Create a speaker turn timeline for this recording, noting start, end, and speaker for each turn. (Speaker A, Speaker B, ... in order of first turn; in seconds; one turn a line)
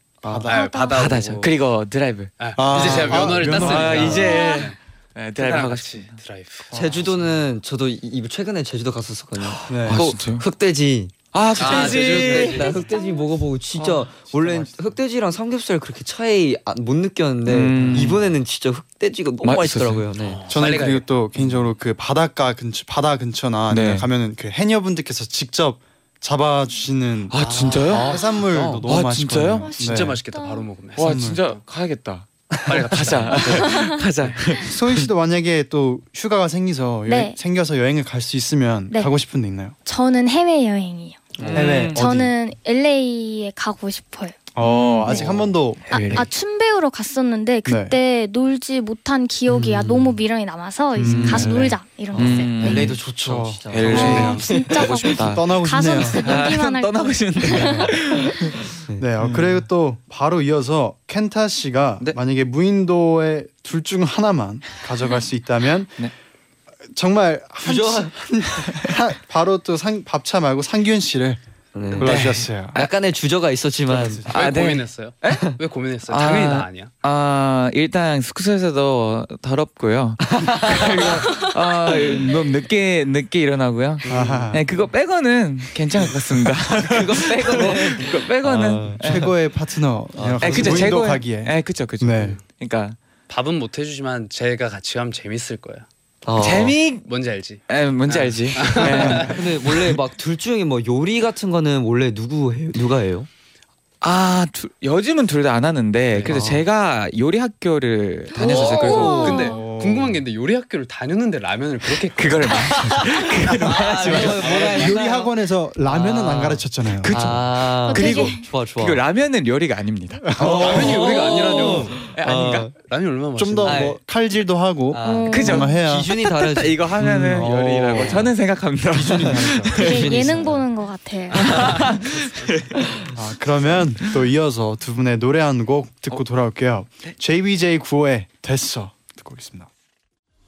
Speaker A: 0.3-1.6
Speaker B: 0.5-1.0
Speaker C: 0.9-6.2
Speaker A: 2.4-4.8
Speaker D: 2.5-4.3
Speaker B: 4.1-4.7
Speaker A: 5.4-6.7
Speaker D: 6.7-7.4
Speaker E: 6.7-20.4
Speaker C: 9.4-10.4
Speaker D: 9.7-10.1
Speaker C: 11.3-12.8
Speaker A: 11.6-12.8
Speaker B: 12.8-13.2
Speaker C: 13.8-14.0
Speaker D: 14.3-14.9
Speaker C: 17.4-18.3
Speaker D: 17.8-18.2
Speaker C: 19.4-20.1
Speaker A: 20.2-21.1
Speaker D: 20.5-30.2
Speaker C: 23.7-24.1
Speaker C: 27.3-28.2
Speaker A: 27.4-28.0
Speaker E: 27.9-28.9
Speaker B: 28.1-28.4
Speaker C: 28.8-29.9
Speaker B: 29.6-30.7
Speaker A: 29.8-31.6
Speaker C: 30.9-35.1
Speaker D: 31.0-31.4
Speaker A: 32.7-34.4
Speaker B: 33.6-34.0
Speaker D: 34.6-39.7
Speaker B: 37.1-37.4
Speaker B: 39.8-45.2
Speaker E: 41.4-41.8
Speaker C: 41.4-42.0
Speaker D: 41.5-42.3
Speaker D: 44.5-46.2
Speaker C: 44.7-45.2
Speaker C: 45.9-46.3
Speaker B: 46.0-52.9
Speaker D: 47.6-48.0
Speaker D: 51.0-56.5
Speaker E: 51.1-51.5
Speaker C: 51.1-51.5
Speaker E: 52.1-55.1
Speaker C: 52.1-53.0
Speaker C: 53.7-59.6
Speaker B: 53.9-57.9
Speaker D: 57.5-57.9
Speaker D: 59.0-66.0
Speaker D: 66.9-71.4
Speaker E: 67.6-68.2
Speaker E: 71.7-74.3
Speaker D: 71.9-72.8
Speaker A: 72.0-72.4
Speaker C: 72.1-72.9
Speaker D: 73.9-74.3
Speaker C: 74.3-75.5
Speaker A: 74.3-76.9
Speaker C: 76.1-89.3
Speaker E: 80.2-81.4
Speaker D: 84.0-84.6
Speaker E: 84.1-84.4
Speaker E: 86.8-89.3
Speaker D: 89.0-92.4
Speaker E: 90.1-91.0
Speaker C: 90.4-93.0
Speaker A: 93.3-95.9
Speaker E: 96.2-96.8
Speaker C: 96.4-97.1
Speaker A: 97.0-99.4
Speaker C: 97.7-100.0
Speaker E: 98.9-103.3
Speaker C: 104.0-109.5
Speaker A: 106.1-106.4
Speaker E: 106.2-106.6
Speaker B: 108.3-109.6
Speaker E: 108.3-109.3
Speaker A: 108.8-114.9
Speaker D: 109.3-110.2
Speaker C: 112.1-114.8
Speaker E: 112.5-115.3
Speaker D: 114.5-117.2
Speaker E: 115.8-119.0
Speaker C: 117.0-121.0
Speaker B: 117.9-118.4
Speaker D: 120.2-121.9
Speaker E: 120.4-122.7
Speaker A: 120.4-122.1
Speaker C: 122.0-122.7
Speaker A: 122.9-123.9
Speaker D: 123.3-126.1
Speaker E: 123.6-124.0
Speaker E: 124.9-128.3
Speaker B: 125.0-125.7
Speaker C: 125.3-130.4
Speaker D: 127.0-128.3
Speaker D: 128.9-129.8
Speaker E: 129.3-130.6
Speaker B: 129.8-131.9
Speaker C: 131.3-132.9
Speaker E: 131.4-131.7
Speaker D: 133.1-139.7